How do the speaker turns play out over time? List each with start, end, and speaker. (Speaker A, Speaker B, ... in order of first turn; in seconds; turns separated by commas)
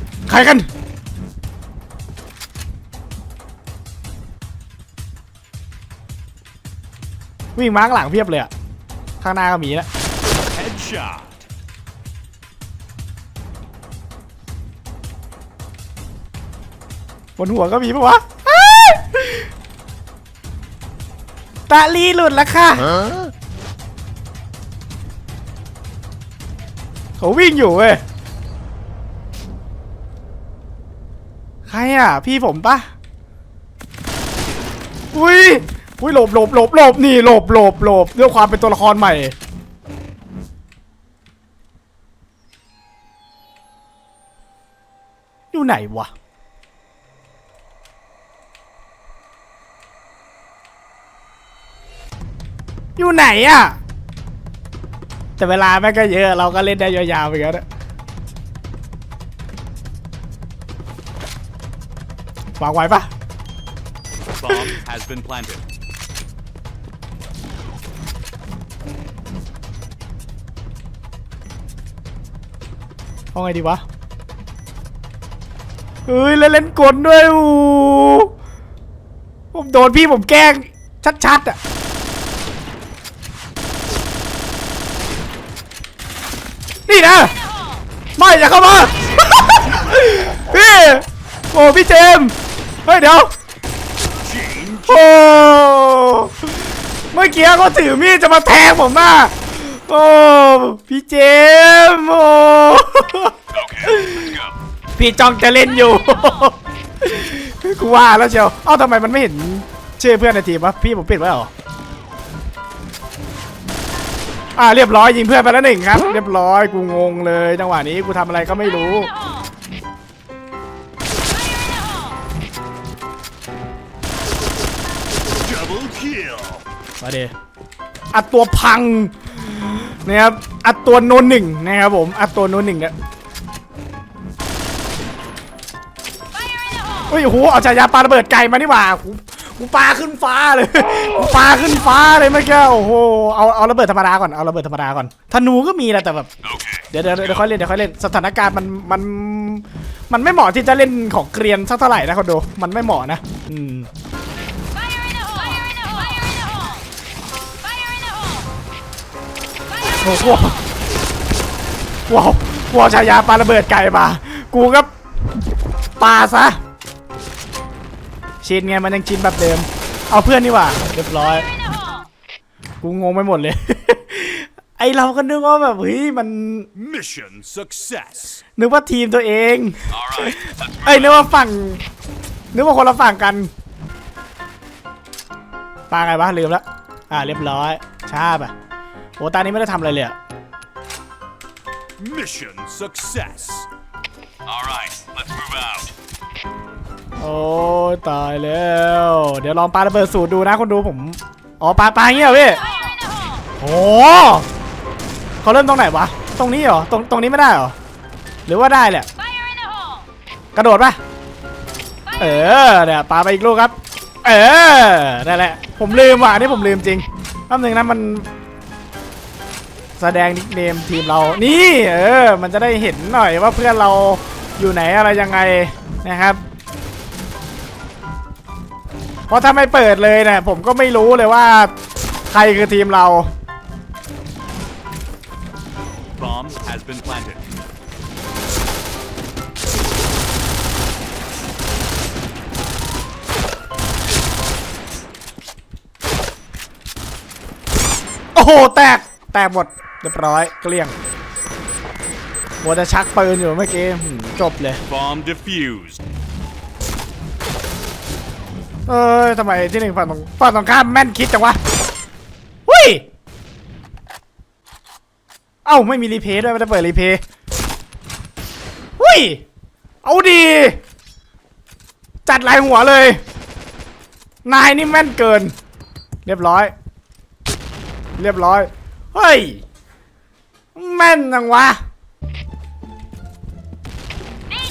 Speaker A: 0.3-0.7, Speaker A: 7.6-8.5, Speaker A: 9.2-9.9, Speaker B: 10.4-11.4, Speaker A: 17.4-19.5, Speaker A: 21.7-23.3, Speaker A: 27.2-28.0, Speaker A: 31.7-32.9, Speaker A: 35.1-39.4, Speaker A: 45.5-46.1, Speaker A: 53.0-53.8, Speaker A: 55.4-57.6, Speaker A: 62.6-63.1, Speaker B: 64.4-65.7, Speaker A: 73.3-73.8, Speaker A: 76.1-78.3, Speaker A: 79.5-81.6, Speaker A: 86.9-87.3, Speaker A: 88.2-92.3, Speaker B: 89.2-90.0, Speaker A: 92.9-93.3, Speaker B: 94.2-95.0, Speaker A: 94.8-104.4, Speaker B: 103.5-104.5, Speaker A: 105.0-111.5, Speaker A: 114.6-119.1, Speaker B: 125.4-126.6, Speaker A: 127.0-127.3, Speaker A: 128.1-132.9, Speaker A: 137.1-153.9, Speaker A: 160.0-160.6, Speaker A: 162.1-164.9, Speaker A: 166.0-166.6, Speaker A: 168.4-171.5, Speaker A: 172.8-176.7, Speaker B: 176.8-178.4, Speaker A: 178.6-181.8, Speaker B: 179.9-181.2, Speaker A: 182.5-183.5, Speaker A: 185.9-188.5, Speaker A: 189.2-190.2, Speaker B: 192.0-193.7, Speaker B: 194.5-195.9, Speaker A: 197.2-202.6, Speaker A: 203.6-204.5, Speaker A: 205.4-207.8, Speaker A: 208.5-209.1, Speaker A: 210.6-211.0, Speaker A: 212.2-218.3, Speaker A: 220.0-226.4, Speaker A: 229.3-231.7, Speaker A: 232.3-233.3, Speaker B: 236.2-237.4, Speaker A: 248.3-250.9, Speaker A: 252.6-254.8, Speaker B: 254.9-256.0, Speaker A: 258.9-261.6, Speaker A: 262.7-263.0, Speaker A: 265.6-267.2, Speaker A: 269.0-269.4, Speaker A: 270.0-270.8, Speaker A: 272.3-273.2, Speaker A: 274.4-275.5, Speaker A: 276.2-276.7, Speaker A: 278.2-279.6, Speaker A: 280.8-281.8